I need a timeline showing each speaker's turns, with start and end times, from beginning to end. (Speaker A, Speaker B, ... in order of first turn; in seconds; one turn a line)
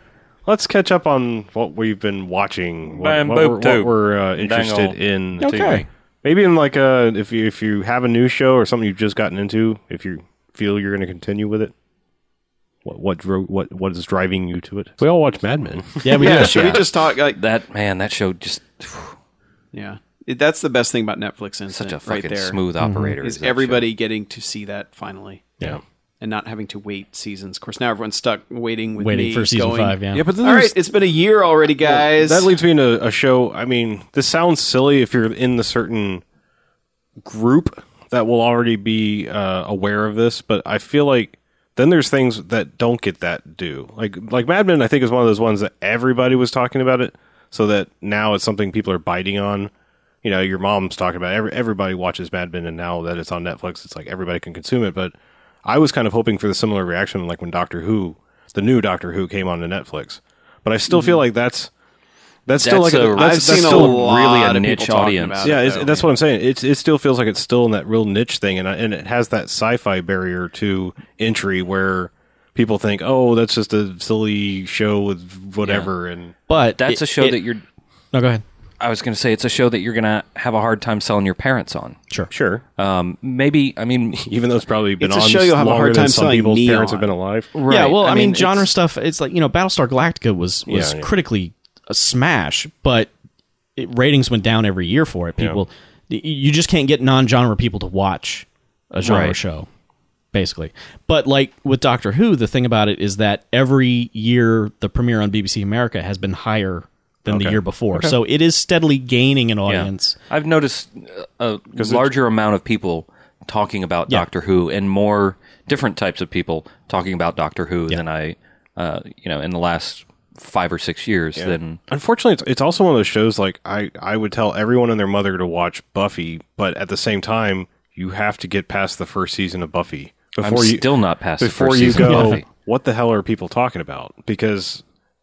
Speaker A: 0.5-11.7
Speaker B: 3.0-5.8
Speaker C: 5.4-5.9
Speaker A: 12.8-16.8
Speaker C: 16.0-16.8
Speaker D: 16.1-17.4
Speaker B: 16.2-19.1
Speaker D: 19.7-22.6
Speaker B: 21.7-23.9
Speaker C: 22.8-23.2
Speaker D: 23.2-32.5
Speaker C: 29.0-30.3
Speaker A: 30.1-30.8
Speaker A: 31.8-36.2
Speaker A: 37.2-49.7
Speaker A: 50.2-61.7
Speaker A: 62.5-64.1
Speaker B: 62.6-65.6
Speaker D: 63.1-66.1
Speaker A: 65.4-76.3
Speaker B: 75.6-75.9
Speaker C: 76.5-77.4
Speaker B: 76.8-77.6
Speaker C: 78.1-78.4
Speaker B: 78.8-82.0
Speaker A: 82.3-82.6
Speaker B: 82.8-84.3
Speaker A: 84.1-87.5
Speaker D: 85.0-87.1
Speaker B: 87.6-88.7
Speaker C: 87.7-93.1
Speaker A: 90.7-91.1
Speaker C: 93.8-99.7
Speaker A: 95.4-95.6
Speaker B: 99.0-99.4
Speaker C: 100.3-110.2
Speaker A: 107.3-108.2
Speaker B: 109.7-121.8
Speaker A: 111.8-112.1
Speaker A: 121.4-130.9
Speaker B: 130.4-132.4
Speaker A: 131.4-134.8
Speaker C: 132.0-132.4